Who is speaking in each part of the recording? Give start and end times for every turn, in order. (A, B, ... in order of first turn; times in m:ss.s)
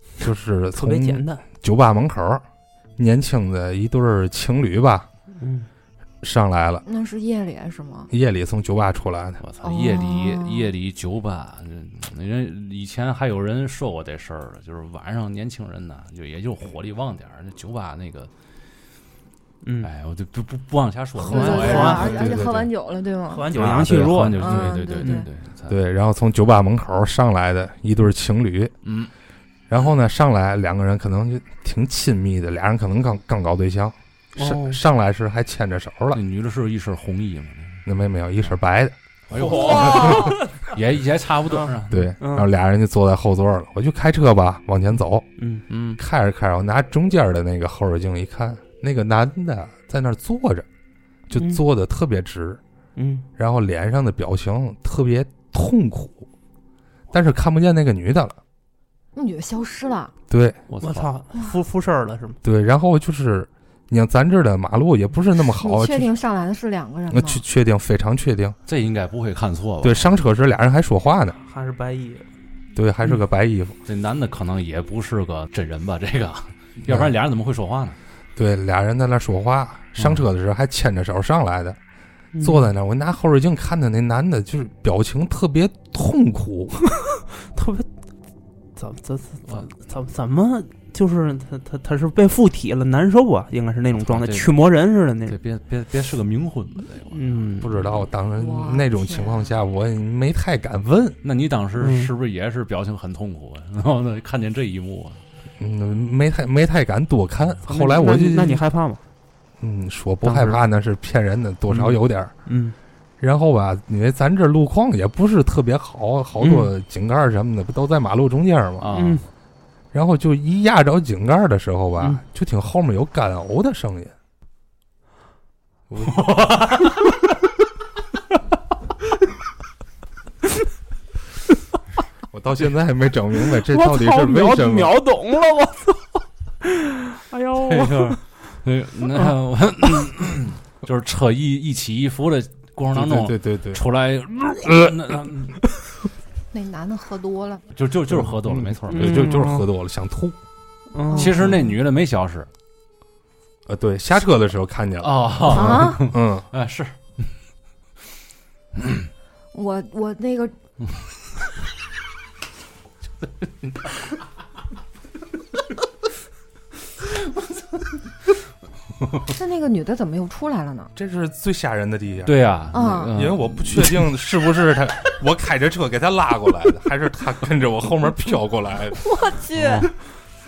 0:00.2-0:02.4 A
0:00.7-0:01.4 B
0:03.0-0:05.1 A
0:05.4-0:05.7 B
0:06.2-0:06.8 A
0:06.8-0:08.1 C
0:08.1-0:09.4 A
0:09.4-0:18.3 D
0:09.6-0:10.7 C
0:19.6-0:19.9 B
0:19.8-0:22.6 D
0:21.2-0:23.5 C
0:21.3-0:22.2 B
0:21.6-0:22.7 A
0:23.3-0:25.2 B
0:23.5-0:25.8 D
0:24.4-0:25.3 C
0:25.7-0:28.7 A
0:28.8-0:29.1 D
0:29.7-0:36.2 A
0:34.4-0:34.8 B
0:36.1-0:37.8 D
0:37.9-0:39.0 A
0:39.3-0:42.1 D
0:39.3-0:40.8 B
0:39.6-0:40.0 A
0:41.5-0:42.5 B
0:41.9-0:45.3 A
0:45.4-0:45.6 B
0:45.7-0:46.0 D
0:46.0-0:50.7 A
0:51.3-0:52.6 A
0:51.4-0:51.6 B
0:53.0-0:53.3 B
0:53.4-0:56.3 A
0:57.1-0:58.4 A
0:59.2-1:00.1 C
1:00.3-1:00.6 A
1:00.7-1:01.1 D
1:00.8-1:02.4 B
1:02.4-1:06.1 A
1:05.5-1:07.4 C
1:07.1-1:08.6 A
1:08.7-1:10.2 D
1:09.8-1:11.4 A
1:11.4-1:12.3 B
1:12.8-1:13.8 A
1:13.9-1:18.0 D
1:16.9-1:17.1 A
1:18.4-1:21.8 A
1:20.0-1:20.2 D
1:22.3-1:22.7 B
1:22.4-1:26.8 A
1:27.0-1:27.9 B
1:28.8-1:35.4 B
1:34.0-1:34.5 D
1:35.3-1:37.4 D
1:37.1-1:37.8 B
1:37.6-1:41.2 A
1:38.4-1:39.5 C
1:41.2-1:45.2 D
1:41.8-1:42.1 B
1:45.6-1:48.6 A
1:47.7-1:49.0 B
1:49.6-1:52.3 A
1:50.2-1:50.6 B
1:52.5-1:52.8 B
1:53.2-1:58.9 A
1:56.4-1:56.7 B
1:58.8-1:59.2 D
1:58.9-1:59.2 B
1:59.9-2:04.1 A
2:05.9-2:06.2 A
2:06.0-2:07.1 D
2:12.3-2:15.0 A
2:13.6-2:18.2 B
2:17.6-2:25.6 D
2:22.9-2:23.8 A
2:24.6-2:25.0 A
2:26.5-2:27.6 C
2:27.7-2:29.3 D
2:28.5-2:30.4 A
2:28.9-2:29.7 B
2:30.9-2:31.7 B
2:31.1-2:32.5 D
2:33.7-2:36.5 A
2:35.0-2:37.3 D
2:35.5-2:36.1 C
2:38.8-2:39.1 D
2:39.5-2:40.5 C
2:49.3-2:50.9 C
2:51.0-2:52.3 A
2:52.2-2:54.0 D
2:52.7-2:53.1 C
2:53.1-2:59.0 A
2:59.0-2:59.9 C
2:59.6-2:59.9 D